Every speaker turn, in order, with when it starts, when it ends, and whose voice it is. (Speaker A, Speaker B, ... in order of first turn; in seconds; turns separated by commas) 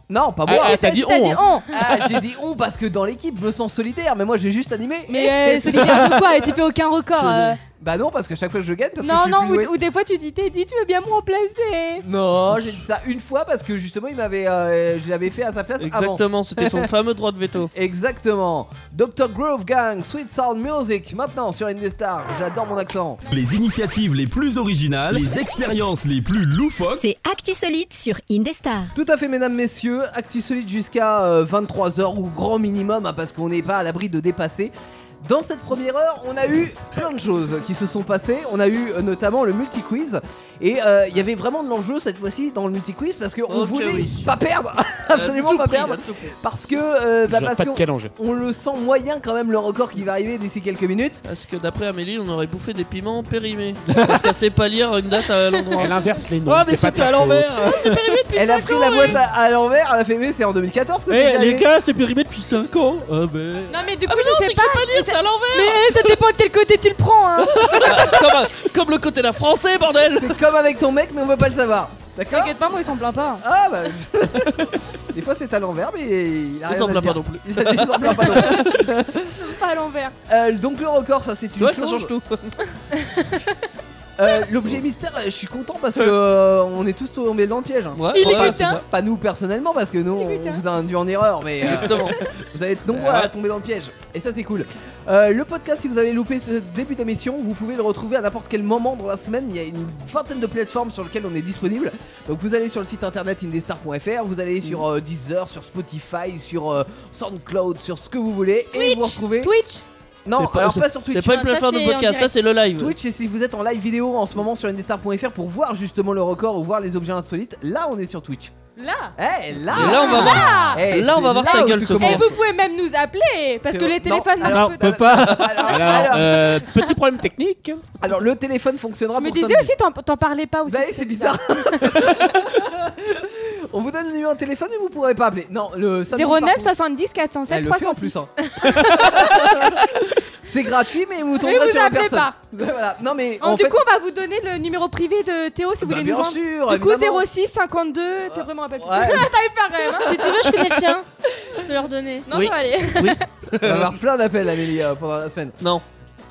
Speaker A: 0.1-0.9, Speaker B: 0.5-1.6, Speaker C: 0.5-1.7, Speaker A: 1.7-6.5, Speaker C: 5.1-7.6, Speaker A: 7.2-9.8, Speaker C: 9.0-12.1, Speaker A: 12.0-16.9, Speaker D: 15.8-17.7, Speaker A: 17.7-23.2, Speaker E: 23.3-27.1, Speaker F: 27.0-28.9, Speaker A: 28.9-51.2, Speaker D: 43.5-44.3, Speaker D: 45.1-46.4, Speaker B: 47.3-48.1, Speaker D: 51.2-56.0, Speaker G: 53.9-54.3, Speaker B: 55.8-57.6, Speaker G: 56.5-58.2, Speaker D: 57.6-59.1, Speaker A: 58.3-61.7, Speaker G: 61.1-63.8, Speaker C: 63.7-68.1, Speaker D: 64.1-66.0, Speaker D: 67.8-70.4, Speaker A: 70.1-72.6, Speaker C: 72.3-73.4, Speaker A: 73.4-79.5, Speaker D: 76.7-78.7, Speaker C: 78.3-78.7, Speaker C: 79.3-80.2, Speaker A: 80.3-82.1, Speaker D: 81.6-82.5, Speaker A: 84.2-109.5, Speaker D: 88.0-88.8, Speaker C: 88.1-88.8, Speaker C: 90.2-90.6, Speaker D: 91.6-92.3, Speaker D: 92.9-93.3, Speaker C: 108.8-109.8, Speaker A: 110.2-111.4, Speaker D: 110.3-113.0, Speaker H: 111.2-112.4, Speaker A: 112.8-118.5, Speaker C: 118.8-119.2, Speaker A: 119.2-122.4, Speaker D: 119.7-122.3, Speaker C: 119.8-120.8, Speaker C: 121.4-125.0, Speaker A: 123.6-126.7, Speaker G: 124.4-125.6, Speaker D: 125.4-125.6, Speaker B: 125.6-127.9, Speaker A: 128.0-129.7, Speaker C: 129.2-132.2, Speaker A: 130.7-136.7, Speaker C: 136.1-139.5, Speaker A: 137.5-143.8, Speaker C: 141.4-142.4, Speaker C: 143.4-150.7, Speaker A: 145.8-147.3, Speaker A: 148.3-149.3, Speaker H: 150.0-152.3, Speaker C: 152.3-153.2, Speaker D: 152.3-154.0, Speaker A: 153.6-155.6